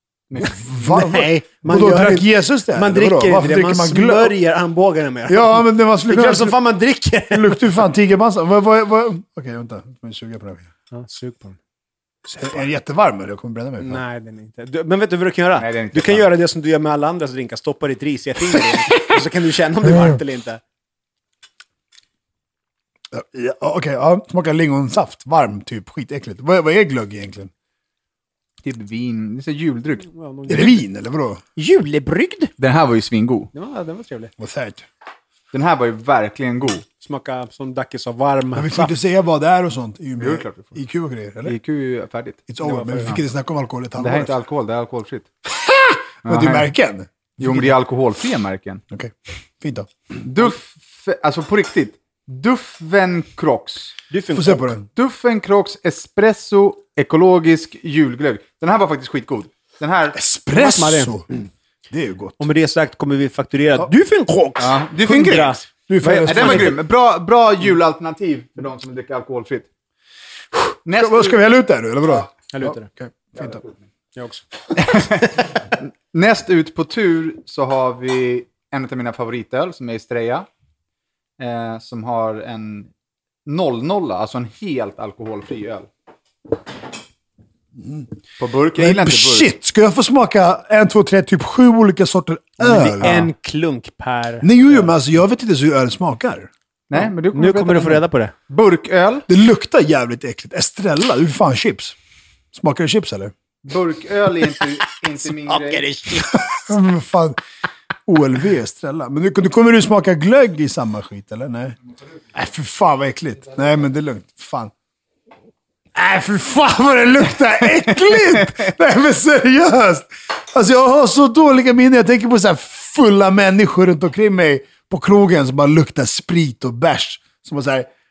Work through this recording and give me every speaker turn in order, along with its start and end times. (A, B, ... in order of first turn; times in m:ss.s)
0:00.3-0:00.7 A
0:00.5-0:04.4 B
0:00.8-0:07.8 C
0:05.3-0:06.6 B
0:07.3-0:10.7 B
0:10.9-0:11.6 C
0:12.3-0:14.0 B
0:13.8-0:20.6 C
0:15.6-0:16.3 A
0:19.8-0:20.2 B
0:23.1-0:27.5 B
0:28.6-0:30.1 A
0:30.0-0:30.8 C
0:30.5-0:31.4 B
0:31.6-0:32.5 C
0:32.6-0:33.5 A
0:33.5-0:34.3 C
0:34.4-0:34.9 B
0:35.5-0:36.8 A
0:37.0-0:38.9 C
0:38.6-0:41.6 B
0:40.2-0:40.8 A
0:41.4-0:42.5 A
0:42.5-0:44.3 B
0:42.6-0:43.2 C
0:44.0-0:45.3 A
0:45.5-0:47.7 B
0:46.2-0:46.7 A
0:47.4-0:48.8 A
0:48.9-0:49.9 B
0:50.2-0:54.0 A
0:54.1-0:54.7 C
0:54.3-0:54.9 B
0:54.9-1:00.2 A
1:00.1-1:01.3 B
1:00.5-1:01.2 C
1:01.9-1:02.5 B
1:02.4-1:06.8 C
1:04.6-1:05.6 A
1:05.9-1:06.8 B
1:06.2-1:09.7 A
1:10.8-1:11.4 A
1:10.9-1:13.6 B
1:12.5-1:12.9 C
1:13.4-1:13.9 A
1:14.2-1:14.4 C
1:14.8-1:20.5 A
1:21.4-1:22.9 A
1:23.5-1:25.9 A
1:27.8-1:28.1 B
1:28.4-1:29.5 A
1:28.8-1:33.3 B
1:32.6-1:34.9 C
1:34.4-1:36.5 B
1:36.9-1:39.3 A
1:37.3-1:38.3 C
1:39.3-1:42.0 B
1:42.5-1:43.3 B
1:43.6-1:45.9 A
1:45.2-1:46.7 C
1:46.3-1:47.4 B
1:48.1-1:51.8 B
1:52.3-1:54.7 B
1:56.0-2:07.9 B